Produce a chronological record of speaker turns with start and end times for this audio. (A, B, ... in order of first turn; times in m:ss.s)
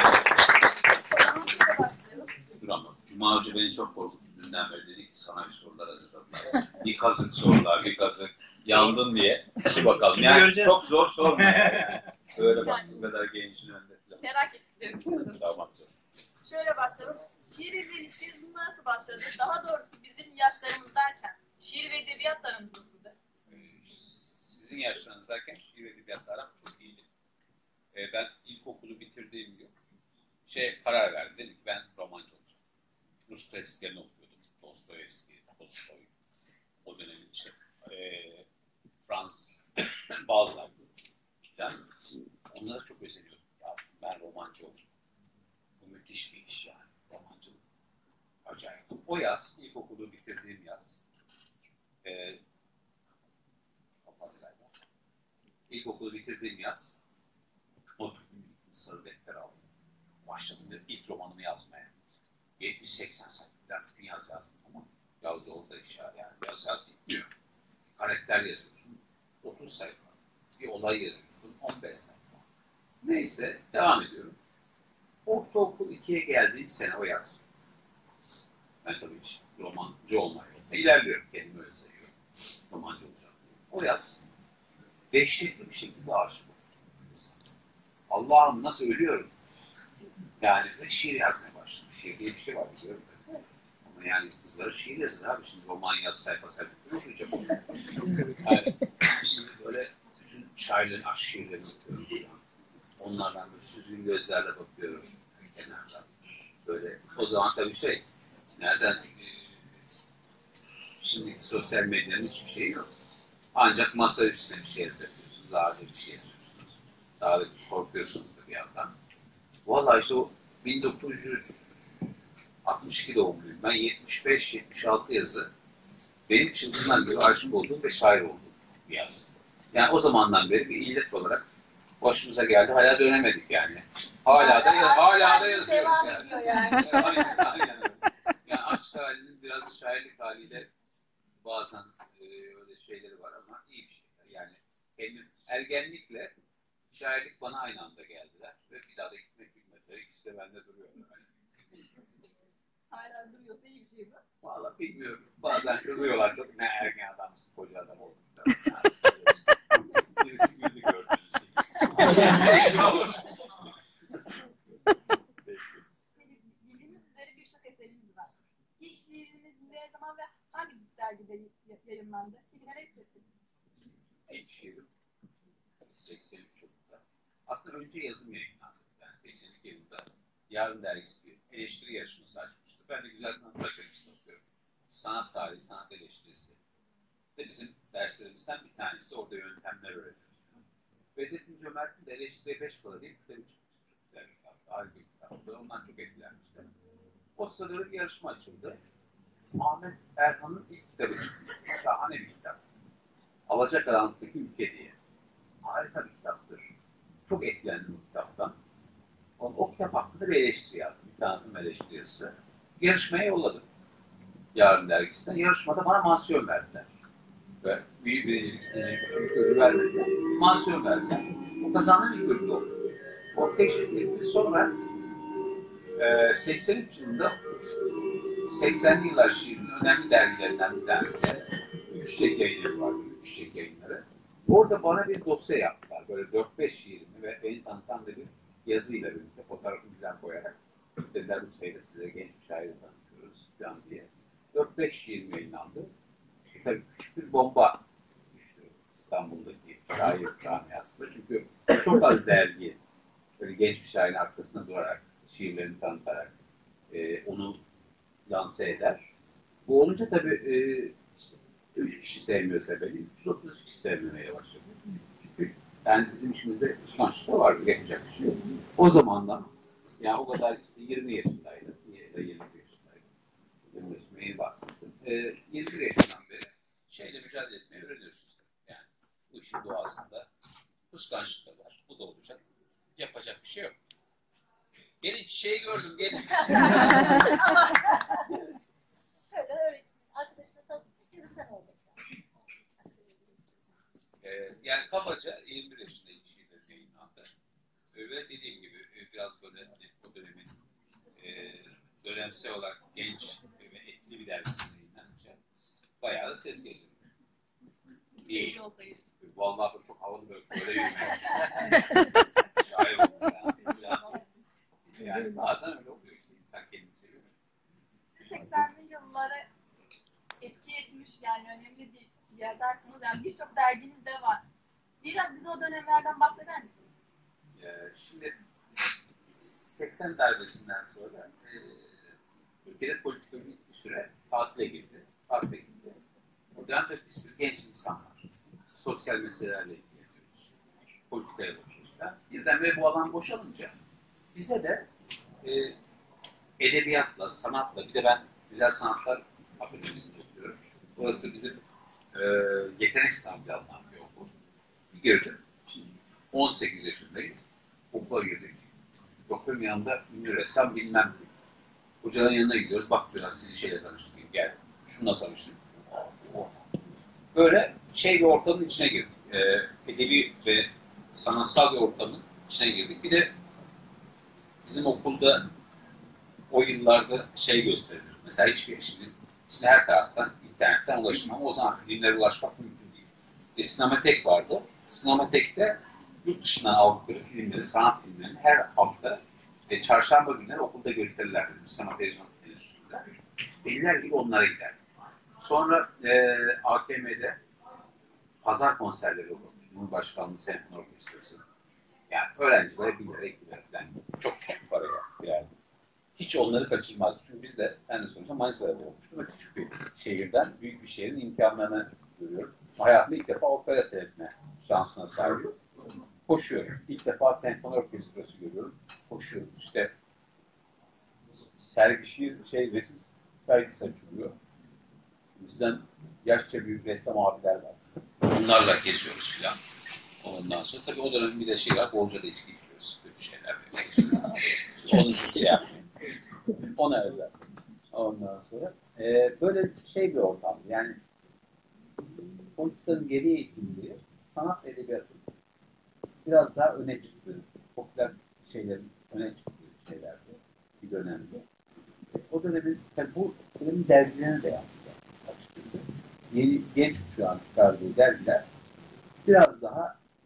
0:01.1-0:02.3 A
0:02.6-0:14.2 B
0:12.5-0:13.0 A
0:14.2-0:15.4 A
0:15.4-0:15.9 B
0:16.4-0:23.1 A
0:23.5-0:27.0 B
0:27.9-0:29.7 B
0:30.4-0:32.6 B
0:33.3-0:36.1 B
0:36.8-0:38.4 B
0:39.0-0:40.8 B
0:41.5-0:41.8 B
0:42.5-0:44.8 B
0:45.8-0:47.6 B
0:48.4-0:51.0 B
0:52.0-0:52.4 B
0:54.0-0:54.7 B
0:55.7-0:57.0 B
0:58.0-0:59.6 B
1:00.2-1:01.9 B
1:02.6-1:07.3 B
1:07.9-1:12.4 B
1:13.0-1:14.4 B
1:15.2-1:17.4 B
1:18.8-1:24.2 B
1:25.1-1:27.4 B
1:28.1-1:29.3 B
1:30.4-1:42.4 B
1:43.0-1:46.1 B
1:46.6-1:48.0 B
1:48.6-1:49.6 B
1:51.0-1:52.9 B
1:53.5-1:58.9 B
1:59.6-2:01.7 B
2:02.6-2:05.5 B
2:06.3-2:11.4 B
2:12.0-2:20.7 B
2:14.3-2:17.4 A
2:16.5-2:16.9 C
2:21.4-2:26.3 B
2:26.9-2:31.2 B
2:32.9-2:34.2 A
2:34.4-2:43.3 B
2:42.0-2:42.6 A
2:45.4-2:45.8 B
2:46.2-2:53.2 A
2:54.3-2:54.9 B
2:55.8-3:06.6 B
3:07.4-3:10.4 B
3:11.1-3:16.7 B
3:17.4-3:18.8 B
3:19.5-3:22.6 B
3:23.5-3:25.0 B
3:25.6-3:26.6 B
3:27.2-3:28.5 B
3:29.4-3:33.7 B
3:34.5-3:36.9 B
3:37.6-3:42.7 B
3:43.3-3:44.8 B
3:46.0-3:47.4 B
3:48.4-4:05.9 B
4:06.5-4:12.8 B
4:13.4-4:16.3 B
4:16.9-4:17.6 B
4:18.3-4:19.0 B
4:19.6-4:21.2 B
4:21.7-4:29.5 B
4:30.0-4:33.0 B
4:33.7-4:40.3 B
4:40.9-4:42.4 B
4:43.0-4:43.7 B
4:45.0-4:47.3 B
4:46.5-4:47.6 A
4:49.3-4:51.8 C
4:54.2-4:57.3 B
4:57.9-5:00.6 B
5:01.2-5:05.4 B
5:06.0-5:06.9 B
5:08.2-5:09.0 A
5:08.2-5:08.6 B
5:09.2-5:14.2 B
5:13.7-5:14.2 A
5:14.9-5:17.3 B
5:18.1-5:19.4 A
5:20.4-5:24.4 A
5:25.0-5:26.8 A
5:27.6-5:28.4 B
5:29.3-5:31.9 B
5:32.6-5:36.0 B
5:36.5-5:38.2 B
5:38.7-5:40.6 B
5:41.1-5:43.7 B
5:44.3-5:44.8 B
5:45.4-5:45.8 B
5:46.6-5:51.6 B
5:52.1-5:54.3 B
5:54.9-5:57.4 B
5:57.9-5:58.7 B
5:59.3-6:01.3 B
6:02.0-6:06.6 B
6:07.3-6:13.3 B
6:14.6-6:15.5 B
6:16.5-6:33.0 B
6:33.6-6:34.8 B
6:35.4-6:37.4 B
6:38.4-6:41.4 B
6:42.1-6:45.5 B
6:46.2-6:55.5 B
6:56.3-6:59.9 B
7:01.4-7:04.3 B
7:05.4-7:09.6 B
7:10.2-7:15.8 B
7:16.6-7:17.4 B
7:17.9-7:21.0 B
7:22.5-7:25.2 B
7:26.2-7:31.4 B
7:32.1-7:38.4 B
7:39.2-7:39.9 B